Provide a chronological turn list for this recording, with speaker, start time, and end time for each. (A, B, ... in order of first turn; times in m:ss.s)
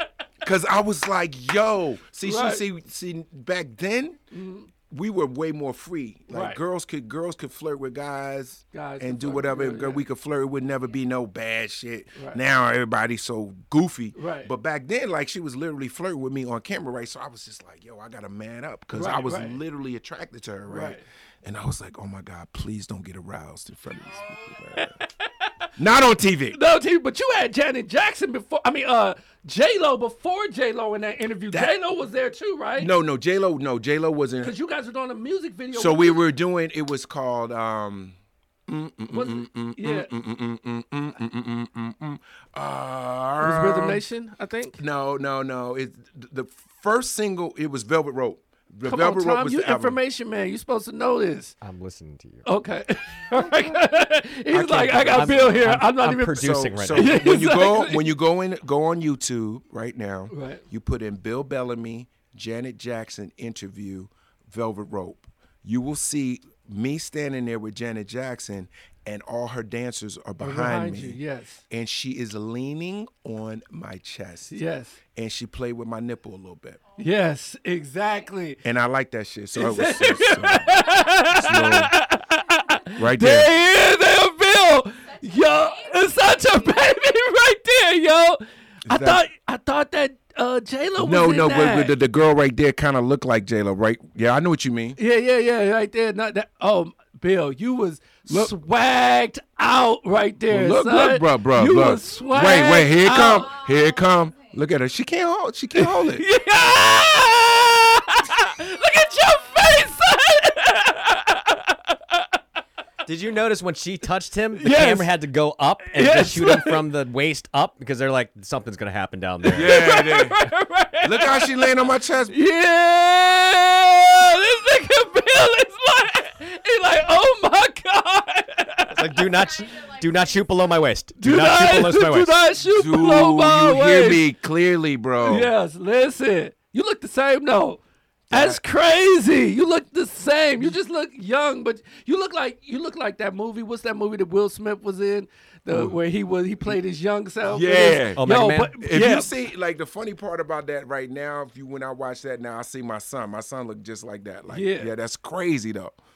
0:00.4-0:04.2 A
0:02.2-0:02.6 B
0:04.3-0:04.7 B
0:04.9-0:25.0 A
0:06.3-0:06.6 B
0:08.7-0:10.0 B
0:12.2-0:12.4 B
0:14.2-0:14.5 B
0:18.9-0:19.6 B
0:20.7-0:21.0 B
0:24.8-0:25.7 B
0:25.8-0:26.6 A
0:26.5-0:32.9 B
0:32.8-0:34.6 A
0:34.4-0:36.2 B
0:35.7-0:44.0 A
0:39.1-0:40.1 B
0:43.4-0:44.8 B
0:44.8-0:50.0 A
0:48.8-0:51.6 B
0:51.6-0:52.5 C
0:52.4-0:58.1 B
0:54.5-0:55.8 A
0:55.1-0:57.2 C
0:56.3-1:11.2 A
1:00.3-1:00.6 B
1:10.4-1:11.6 B
1:11.7-1:14.6 A
1:14.5-1:15.0 B
1:15.1-1:16.8 A
1:17.0-1:18.6 B
1:18.6-1:21.9 A
1:19.6-1:32.0 B
1:23.0-1:23.5 A
1:28.9-1:29.2 A
1:31.0-1:35.0 A
1:35.0-1:43.7 B
1:40.5-1:46.2 A
1:45.8-1:52.3 B
1:53.1-1:59.8 C
1:54.6-1:55.1 B
1:55.8-1:56.9 B
1:59.5-2:00.4 A
1:59.5-2:01.8 B
2:01.0-2:02.4 A
2:02.3-2:09.5 B
2:08.9-2:12.4 C
2:11.2-2:14.2 B
2:12.7-2:15.5 A
2:15.2-2:29.4 B
2:18.3-2:18.6 A
2:25.7-2:26.0 A
2:27.4-2:28.3 A
2:28.2-2:28.7 C
2:28.8-2:36.0 A
2:34.5-2:34.9 B